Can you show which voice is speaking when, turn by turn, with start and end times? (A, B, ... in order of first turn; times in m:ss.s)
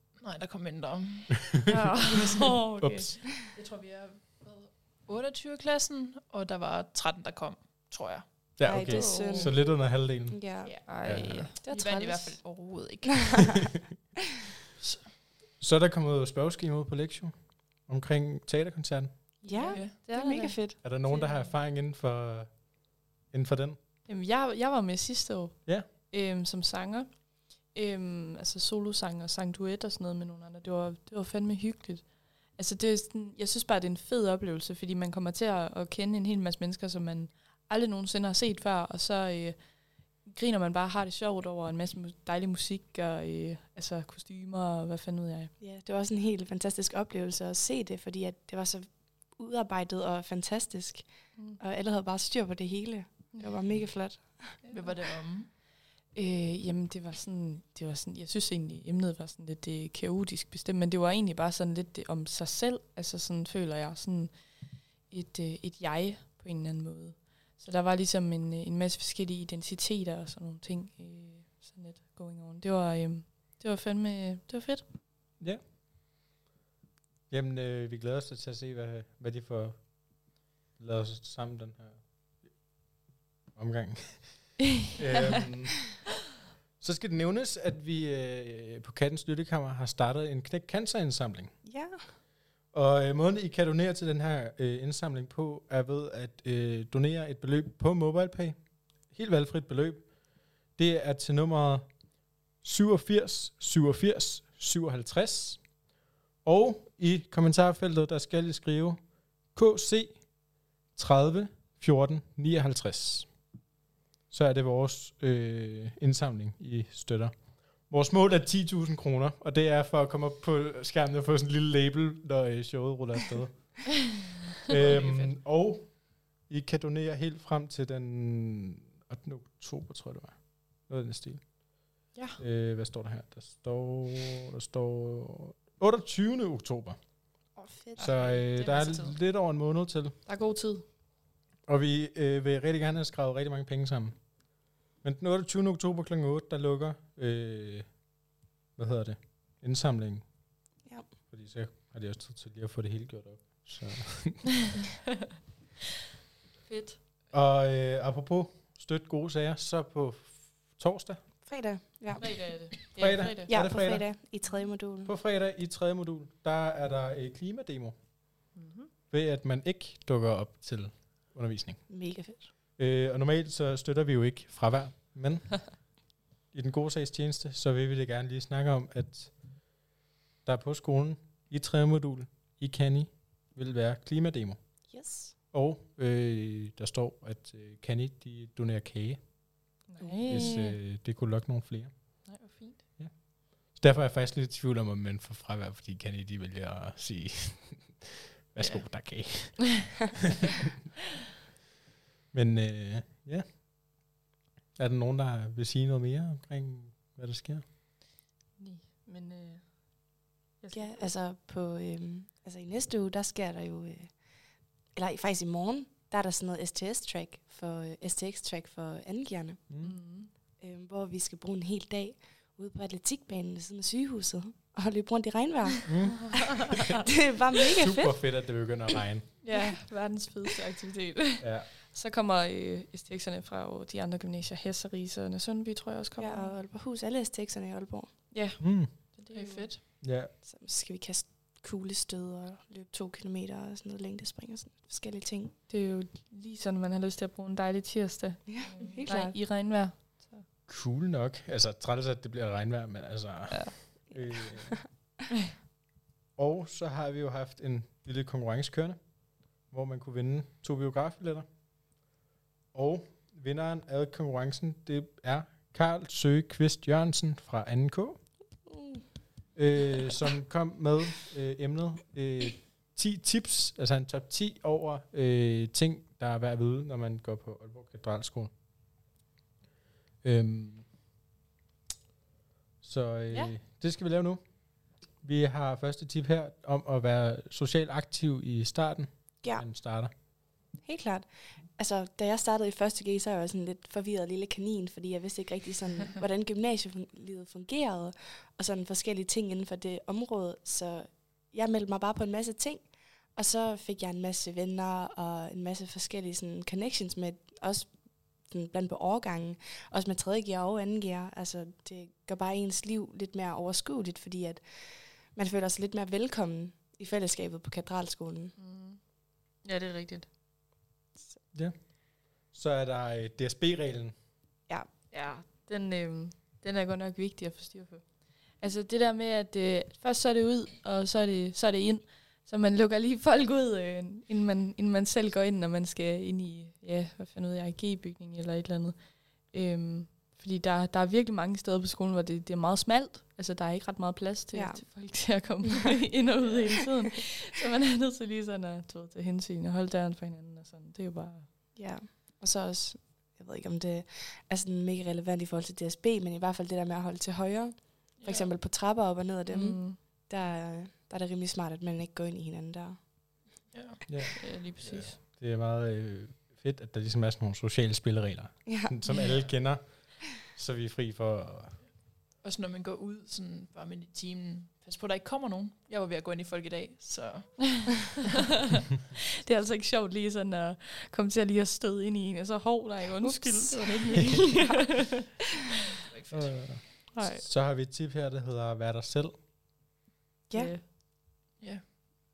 0:00.2-0:02.7 A
0:01.5-0:01.9 B
0:01.7-0:03.2 C
0:02.8-0:03.2 B
0:03.3-0:08.2 A
0:08.6-0:10.4 B
0:08.6-0:10.8 D
0:08.7-0:09.5 C
0:10.6-0:13.6 A
0:10.8-0:11.5 C
0:11.0-0:11.5 B
0:11.6-0:12.4 D
0:13.3-0:13.7 D
0:15.6-0:19.1 B
0:19.4-0:20.8 D
0:19.4-0:20.6 C
0:19.7-0:19.9 A
0:20.8-0:23.8 B
0:21.1-0:21.5 A
0:24.1-0:39.6 C
0:40.2-0:45.5 C
0:45.6-0:54.6 D
0:51.3-0:51.6 C
0:53.3-0:53.7 C
0:54.6-0:54.9 C
0:54.7-0:55.5 A
0:56.1-1:14.8 C
1:17.3-1:22.6 B
1:23.5-1:26.0 B
1:26.8-1:31.5 B
1:31.6-1:32.0 D
1:32.7-1:38.6 B
1:39.1-1:40.0 B
1:40.7-1:41.8 B
1:42.6-1:45.7 B
1:46.4-1:49.0 B
1:49.5-1:50.3 B
1:50.9-1:53.3 B
1:54.3-2:17.0 B
2:04.7-2:05.3 A
2:17.6-2:18.2 D
2:18.0-2:20.1 B
2:18.0-2:19.1 A
2:20.2-2:20.8 C
2:21.7-2:24.4 B
2:25.0-2:28.0 B
2:28.8-2:30.2 B
2:31.3-2:34.7 B
2:36.7-2:37.0 C
2:37.3-2:41.2 B
2:41.4-2:42.8 D
2:42.2-2:43.5 C
2:42.9-2:44.1 B
2:43.5-2:45.1 D
2:45.0-2:47.9 B
2:48.5-2:48.9 C
2:49.1-2:51.9 B
2:51.9-2:52.5 D
2:52.8-2:55.9 B
2:56.5-2:59.4 B
3:00.4-3:04.6 B
3:04.9-3:05.4 D
3:05.5-3:09.4 B
3:09.9-3:10.7 C
3:10.0-3:10.7 D
3:10.2-3:12.2 B
3:12.2-3:12.8 C
3:13.0-3:20.1 B
3:18.6-3:18.9 A
3:22.3-3:23.4 B
3:24.8-3:27.6 B
3:28.6-3:31.1 C
3:30.7-3:34.2 D
3:34.9-3:39.6 D
3:39.7-3:39.9 B
3:39.8-3:40.3 C
3:40.6-3:46.3 D
3:45.9-3:46.8 B
3:46.9-3:48.2 D
3:47.8-3:49.3 B
3:49.4-3:56.6 C
3:51.4-3:51.7 B
3:56.2-3:58.2 D
3:58.3-3:59.7 C
3:58.6-3:58.9 B
3:59.3-3:59.8 A
4:00.0-4:00.3 B
4:00.3-4:05.5 D
4:05.7-4:10.4 C
4:08.4-4:09.4 D
4:10.7-4:14.9 B
4:16.4-4:19.1 B
4:19.6-4:21.4 B
4:22.7-4:28.2 B
4:28.7-4:29.0 D
4:29.6-4:38.5 B
4:40.2-4:40.9 B
4:42.8-4:44.5 B
4:45.2-4:50.1 B
4:50.8-5:18.6 D
5:18.6-5:19.1 C
5:19.6-5:20.3 C
5:22.5-5:24.1 B
5:25.1-5:51.5 C
5:44.5-5:45.4 D
5:46.4-5:46.8 A
5:51.8-6:03.3 D
5:58.2-5:58.5 A
5:59.4-6:00.0 C
6:03.7-6:04.0 A
6:04.1-6:11.8 B
6:04.4-6:05.2 C
6:08.7-6:08.9 D
6:12.4-6:18.3 A
6:19.4-6:25.2 C
6:23.2-6:25.2 D
6:26.0-6:26.8 A
6:26.3-6:29.3 B
6:27.1-6:27.4 C
6:30.5-6:30.7 D
6:30.5-6:30.8 C